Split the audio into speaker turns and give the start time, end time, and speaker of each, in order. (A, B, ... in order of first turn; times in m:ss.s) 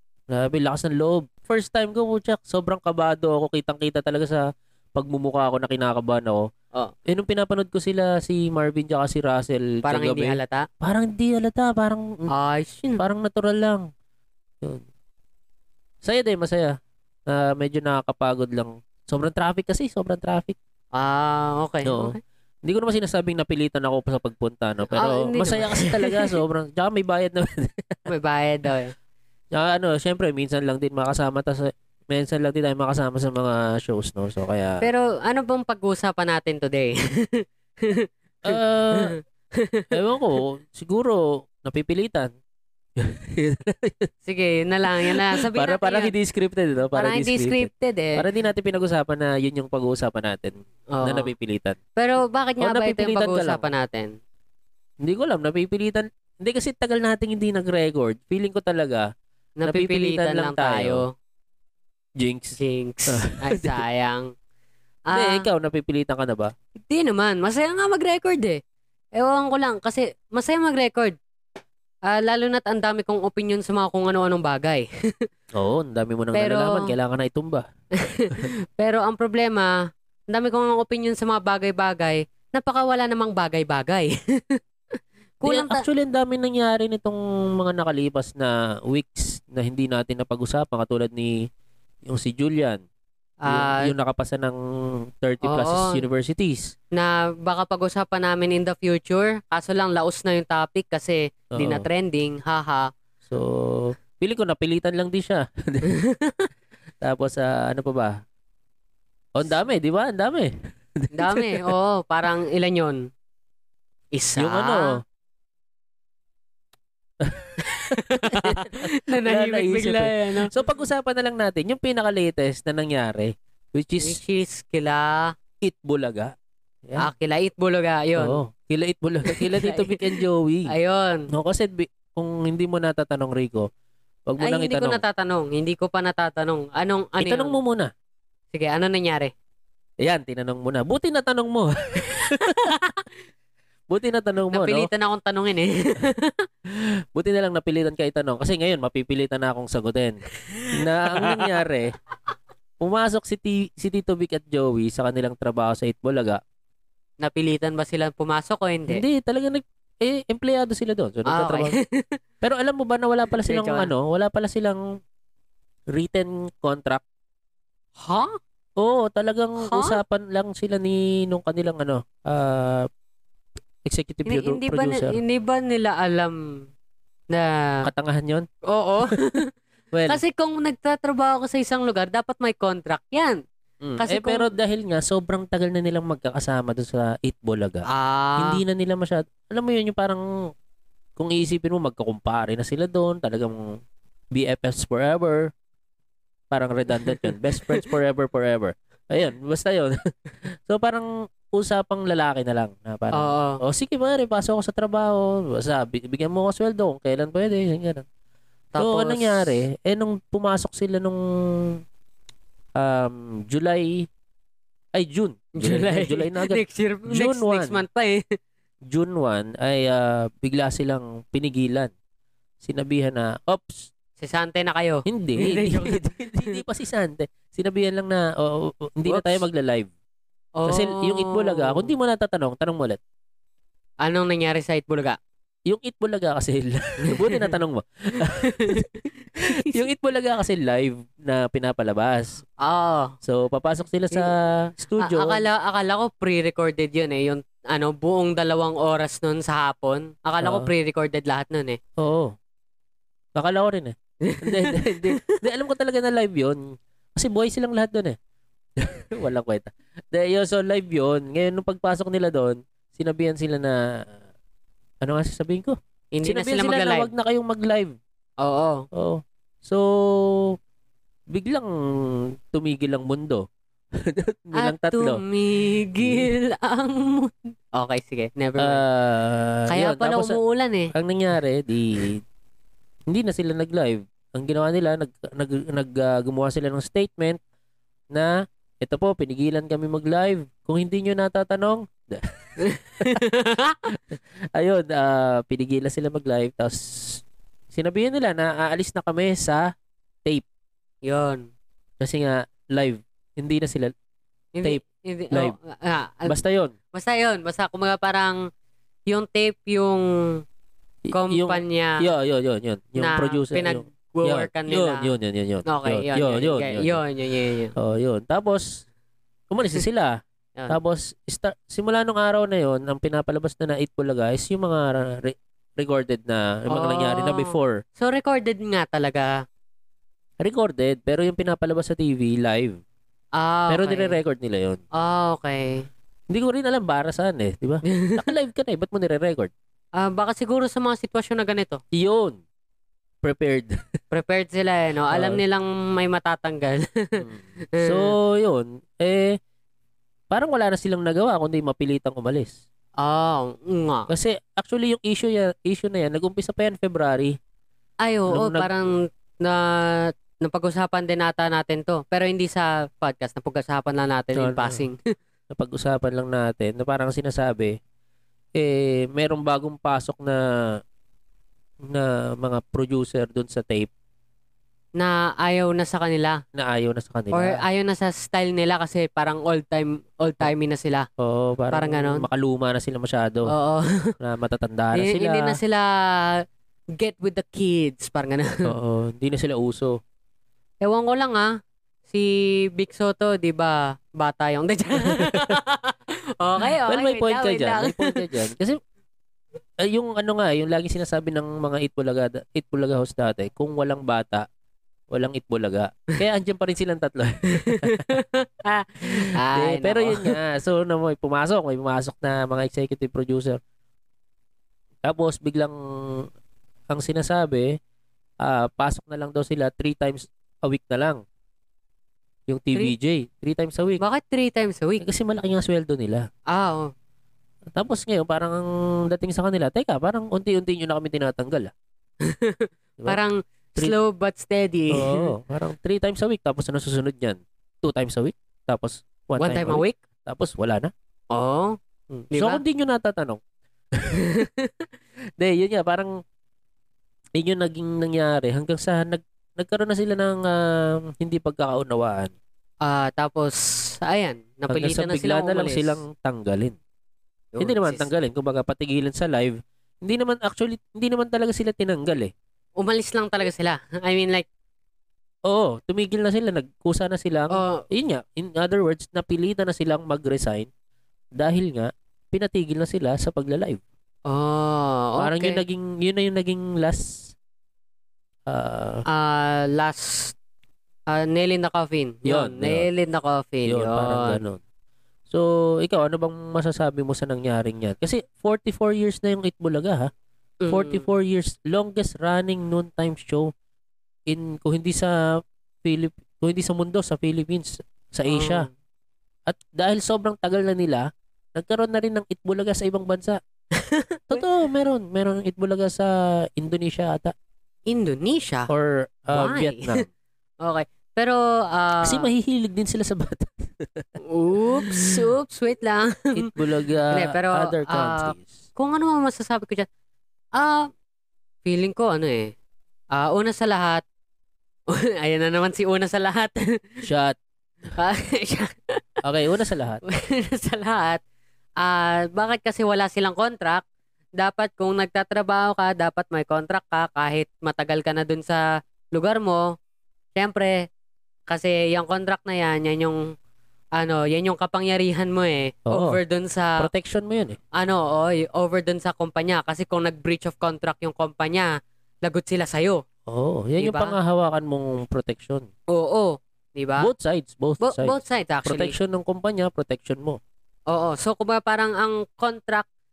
0:00.3-0:06.5 A
0:07.1-0:12.3 A
0:09.8-0:10.7 B
0:12.3-0:13.0 B
0:13.0-0:13.9 A
0:16.0-0:16.8 A
0:17.3-0:20.6 A
0:20.9-0:22.2 B
0:21.8-0:28.1 A
0:24.9-0:26.4 B
0:28.1-0:28.9 B
0:29.5-0:34.9 A
0:34.8-0:39.9 B
0:38.4-0:39.1 A
0:39.9-0:42.3 A
0:43.0-0:44.1 A
0:44.2-0:46.1 B
0:45.0-0:51.8 A
0:47.0-0:48.2 B
0:50.9-0:51.3 B
0:52.0-0:54.2 B
0:52.6-0:53.6 A
0:55.0-0:59.1 A
0:59.6-1:01.1 B
0:59.6-1:01.0 A
1:02.2-1:02.6 A
1:02.6-1:04.3 B
1:03.1-1:03.8 A
1:05.1-1:05.4 B
1:05.1-1:06.5 A
1:06.7-1:08.6 B
1:09.1-1:11.2 B
1:12.0-1:15.3 B
1:15.5-1:17.6 A
1:16.3-1:16.9 B
1:18.0-1:19.8 B
1:20.3-1:24.6 B
1:25.4-1:25.8 B
1:25.4-1:31.3 A
1:32.0-1:32.8 A
1:33.4-1:33.9 B
1:33.5-1:34.6 A
1:35.2-1:36.7 A
1:35.4-1:36.0 B
1:36.9-1:42.9 B
1:41.6-1:41.8 A
1:43.3-1:45.9 A
1:45.9-1:46.5 B
1:47.0-1:48.2 A
1:49.3-1:51.7 A
1:51.1-1:53.0 B
1:54.1-1:54.9 B
1:54.4-1:55.0 A
1:57.2-2:04.2 A
1:57.6-2:00.5 B
2:04.0-2:05.3 B
2:05.6-2:06.3 A
2:07.0-2:08.4 B
2:08.2-2:10.7 A
2:09.2-2:11.3 B
2:11.3-2:13.7 A
2:14.3-2:15.0 A
2:14.4-2:17.6 B
2:17.2-2:17.9 A
2:18.5-2:19.3 B
2:20.0-2:22.8 A
2:22.2-2:22.9 B
2:23.9-2:24.9 A
2:24.5-2:26.4 B
2:26.7-2:30.2 A
2:30.5-2:31.5 B
2:30.7-2:31.9 A
2:32.8-2:36.4 A
2:37.2-2:39.0 B
2:38.9-2:41.8 A
2:41.3-2:42.2 B
2:42.4-2:44.8 A
2:43.4-2:43.9 B
2:45.9-2:47.0 A
2:48.0-2:48.3 B
2:48.8-2:52.9 A
2:49.6-2:50.0 B
2:53.8-2:55.2 A
2:54.3-2:56.4 B
2:57.3-2:57.8 B
2:57.8-2:58.5 A
2:58.6-2:59.5 B
2:59.9-3:00.2 A
3:00.1-3:03.4 B
3:03.8-3:07.9 A
3:04.0-3:04.5 B
3:07.9-3:08.6 B
3:08.4-3:10.2 A
3:11.2-3:13.7 A
3:14.3-3:15.5 A
3:16.5-3:20.0 A
3:17.0-3:17.9 B
3:20.6-3:28.0 A
3:23.1-3:23.6 B
3:28.7-3:29.5 B
3:28.8-3:31.2 A
3:32.8-3:34.1 A
3:34.9-3:37.8 A
3:35.6-3:38.4 B
3:38.9-3:41.9 A
3:42.6-3:43.9 A
3:44.2-3:46.6 B
3:45.0-3:49.9 A
3:49.1-3:49.4 B
3:50.6-3:51.9 B
3:50.6-3:53.0 A
3:54.0-3:55.2 B
3:55.7-3:58.9 A
3:57.1-3:57.5 B
3:58.2-3:59.8 B
3:59.4-4:02.4 A
4:02.6-4:03.1 B
4:03.2-4:05.4 A
4:05.0-4:11.8 B
4:10.4-4:10.7 A
4:12.0-4:12.3 A
4:13.4-4:18.2 A
4:14.2-4:15.4 B
4:18.8-4:24.0 A
4:25.0-4:28.0 A
4:26.1-4:27.1 B
4:28.4-4:28.8 B
4:28.9-4:30.6 A
4:31.3-4:33.4 A
4:34.0-4:35.2 A
4:34.6-4:38.8 B
4:35.8-4:36.3 A
4:38.6-4:40.4 A
4:39.7-4:40.9 B
4:40.9-4:42.2 A
4:43.1-4:47.4 A
4:48.1-4:53.2 A
4:52.6-4:53.8 B
4:54.1-4:59.7 A
5:01.0-5:01.5 B
5:02.0-5:03.9 A
5:04.5-5:06.3 B
5:04.6-5:05.5 A
5:06.2-5:06.7 A
5:06.9-5:08.4 B
5:09.1-5:10.4 B
5:11.1-5:17.0 A
5:11.1-5:12.0 B
5:13.0-5:15.1 B
5:15.7-5:17.7 B
5:17.8-5:18.8 A
5:19.5-5:27.8 A
5:26.7-5:29.4 B
5:30.4-5:32.8 A
5:33.4-5:34.2 B
5:33.7-5:34.8 A
5:34.9-5:35.8 B
5:36.3-5:39.5 A
5:37.9-5:38.2 B
5:40.0-5:41.8 B
5:41.9-5:42.4 A
5:43.2-5:43.7 A
5:44.1-5:47.2 B
5:45.1-5:45.4 A
5:47.2-5:49.4 A
5:47.7-5:48.1 B
5:50.3-5:52.6 A
5:53.0-5:54.1 B
5:54.1-5:57.4 A
5:58.0-6:05.0 B
5:58.3-5:58.7 A
6:04.4-6:04.8 A
6:05.5-6:07.7 A
6:08.6-6:10.4 A
6:11.9-6:13.9 A
6:15.0-6:16.4 B
6:16.5-6:17.6 A
6:17.3-6:21.1 B
6:21.2-6:23.5 A
6:21.7-6:22.2 B
6:23.5-6:24.1 B
6:24.2-6:25.6 A
6:24.9-6:26.4 B
6:26.9-6:28.6 B
6:28.6-6:30.0 A
6:30.8-6:38.2 B
6:35.1-6:35.5 A
6:36.8-6:38.8 A
6:39.8-6:44.4 A
6:45.1-6:48.1 A
6:47.6-6:50.3 B
6:49.1-6:53.6 A
6:55.0-6:56.2 A
6:56.9-6:57.7 A
6:58.4-7:01.2 A
7:02.5-7:04.0 A
7:04.0-7:05.0 B
7:05.0-7:06.3 A
7:06.5-7:06.9 B
7:07.7-7:11.7 A
7:12.2-7:15.3 B
7:14.9-7:20.9 A
7:19.4-7:20.0 B
7:21.3-7:21.8 B
7:22.1-7:23.4 A
7:22.3-7:22.6 B
7:24.0-7:24.3 A
7:24.2-7:24.9 B
7:25.4-7:26.2 A
7:27.4-7:32.3 A
7:32.8-7:36.0 B
7:34.7-7:36.8 A
7:37.5-7:38.1 B
7:37.6-7:42.3 A
7:42.8-7:44.4 B
7:45.5-7:50.7 A
7:47.5-7:47.8 B
7:51.4-7:53.8 A
7:54.2-7:55.6 B
7:55.2-7:57.3 A
7:58.5-7:59.0 A
7:59.1-8:00.3 B
8:01.1-8:04.4 B
8:02.2-8:02.9 A
8:03.6-8:04.6 A
8:05.3-8:10.1 A
8:10.6-8:11.0 B
8:10.7-8:13.5 A
8:14.3-8:15.2 A
8:15.8-8:18.7 A
8:18.3-8:18.7 B
8:19.5-8:23.4 A
8:23.7-8:24.4 B
8:24.3-8:27.3 A
8:27.9-8:28.7 B
8:28.7-8:30.0 A
8:29.3-8:30.0 B
8:30.6-8:32.3 B
8:32.0-8:34.1 A
8:34.3-8:36.5 B
8:34.7-8:35.2 A
8:36.3-8:38.6 A
8:37.1-8:39.9 B
8:40.6-8:40.9 B
8:41.6-8:42.5 B
8:43.1-8:44.0 B
8:44.9-8:46.6 B
8:47.0-8:47.4 A
8:48.0-8:49.0 B
8:49.2-8:50.0 A
8:50.0-8:51.2 B
8:51.8-8:53.8 B
8:54.4-8:59.7 B
9:00.3-9:00.9 B
9:01.5-9:03.3 B
9:04.0-9:06.9 B
9:05.9-9:06.2 A
9:06.8-9:07.6 A
9:07.7-9:11.7 B
9:12.2-9:13.0 B
9:13.3-9:15.7 A
9:13.8-9:14.2 B
9:15.9-9:17.1 B
9:17.0-9:20.4 A
9:17.8-9:18.9 B
9:20.9-9:22.8 B